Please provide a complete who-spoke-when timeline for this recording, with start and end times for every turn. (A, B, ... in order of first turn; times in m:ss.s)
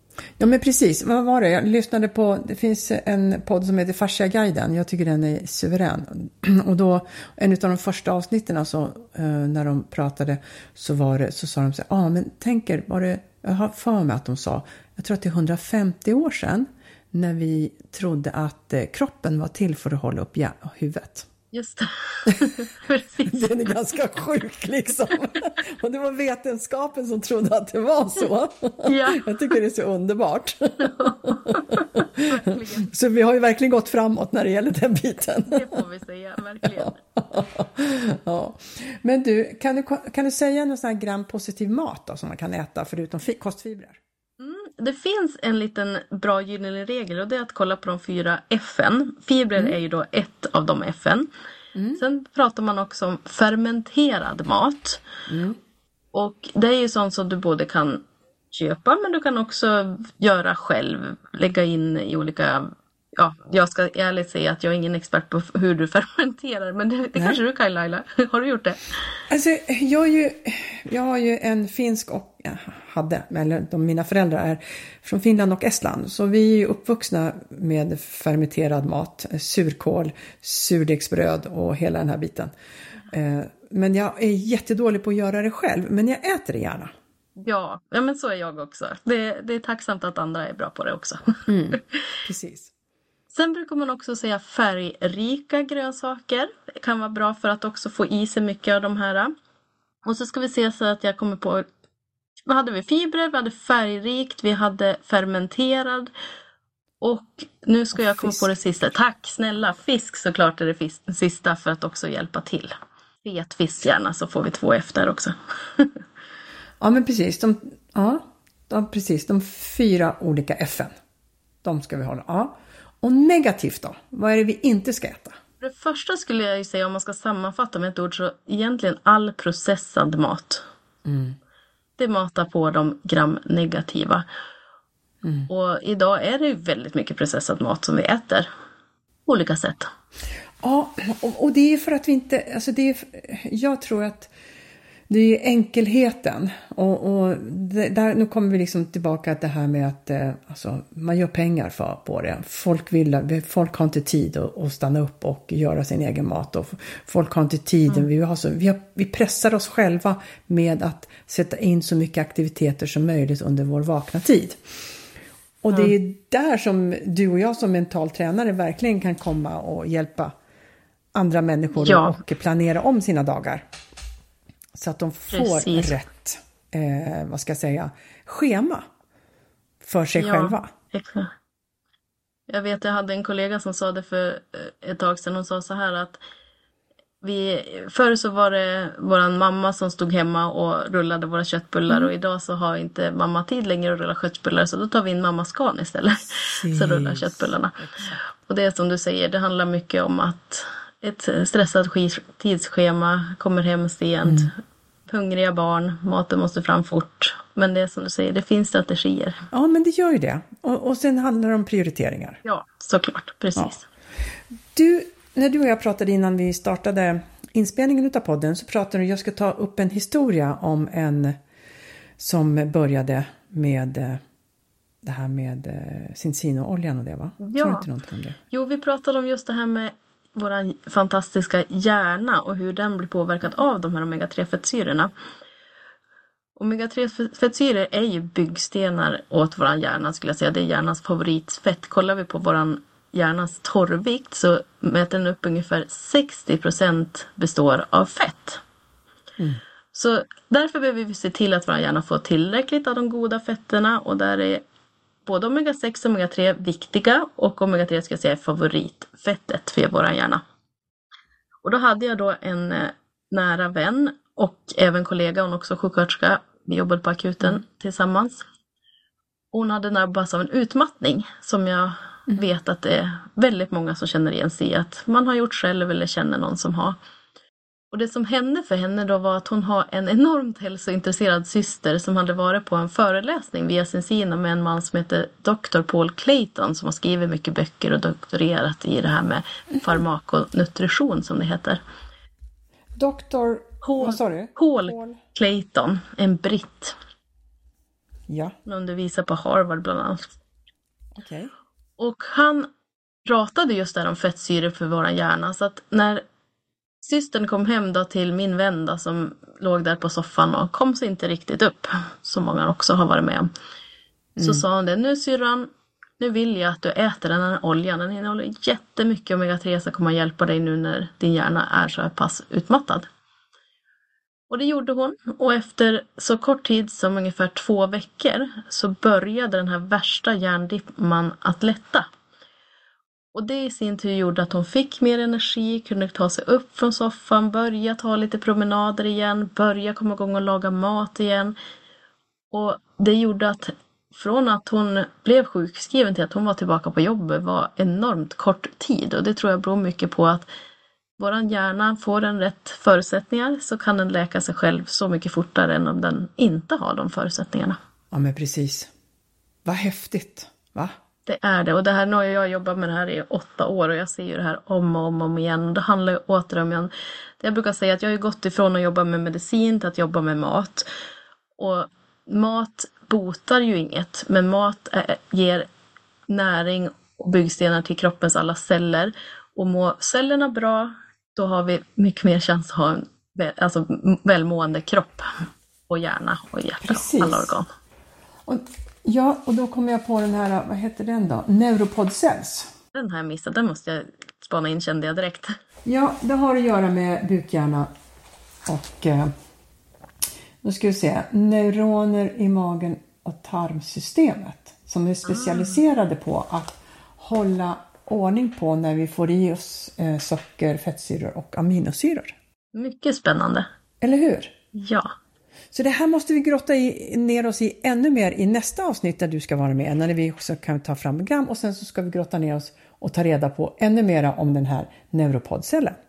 0:00.4-0:21.3 A
0:21.5-0:23.5 B
0:23.3-0:35.7 A
0:28.8-0:29.2 B
0:30.9-0:32.9 B
0:35.4-0:37.0 B
0:36.6-0:44.0 A
0:44.4-0:51.3 B
0:51.8-0:52.0 A
0:52.0-0:55.0 B
0:55.3-0:55.6 A
0:56.1-1:08.9 B
1:09.3-1:22.5 A
1:23.1-1:26.9 A
1:27.4-1:32.0 B
1:31.5-1:32.7 A
1:33.3-1:39.3 B
1:40.0-1:41.6 B
1:42.5-1:46.1 B
1:47.0-1:56.0 B
1:48.0-1:48.4 A
1:56.8-2:00.9 A
2:01.6-2:05.4 A
2:05.6-2:10.6 B
2:11.1-2:11.4 A
2:12.0-2:14.2 B
2:15.2-2:15.5 A
2:15.5-2:18.5 B
2:19.3-2:19.9 B
2:20.6-2:24.3 A
2:25.1-2:44.6 A
2:45.6-2:50.3 A
2:51.2-2:53.6 A
2:51.8-2:52.2 B
2:54.8-2:58.8 A
2:55.3-2:56.0 B
2:59.8-3:00.7 A
3:00.2-3:01.3 B
3:02.5-3:06.2 B
3:07.2-3:17.8 B
3:16.5-3:18.2 A
3:18.4-3:24.5 B
3:25.1-3:29.4 B
3:29.5-3:32.4 A
3:32.4-3:33.9 B
3:34.7-3:41.4 A
3:42.2-3:44.2 A
3:45.0-3:48.4 A
3:47.4-3:47.9 B
3:48.5-3:55.1 B
3:56.6-4:08.6 B
4:09.9-4:14.6 B
4:15.3-4:20.4 B
4:21.6-4:28.4 B
4:29.5-4:37.0 B
4:37.9-4:51.8 B
4:53.0-4:55.2 A
4:53.8-4:57.0 B
4:58.3-4:58.5 A
4:58.7-5:00.4 B
5:01.2-5:01.5 A
5:02.0-5:02.7 B
5:03.3-5:06.2 B
5:07.0-5:13.5 B
5:14.4-5:14.6 A
5:14.4-5:15.7 B
5:16.2-5:23.1 B
5:24.5-5:32.1 B
5:33.3-5:41.6 B
5:42.5-5:50.5 B
5:51.2-5:57.8 B
5:58.1-5:58.9 A
5:59.6-6:00.9 A
6:01.3-6:10.8 B
6:11.6-6:15.7 B
6:16.3-6:25.3 B
6:25.9-6:27.7 B
6:26.8-6:27.5 A
6:28.5-6:32.7 A
6:33.0-6:35.5 B
6:35.8-6:37.9 A
6:38.7-6:39.3 A
6:40.6-6:52.3 A
6:45.3-6:45.8 B
6:52.7-6:53.7 B
6:54.0-6:54.5 A
6:54.7-6:55.1 B
6:55.7-7:06.0 A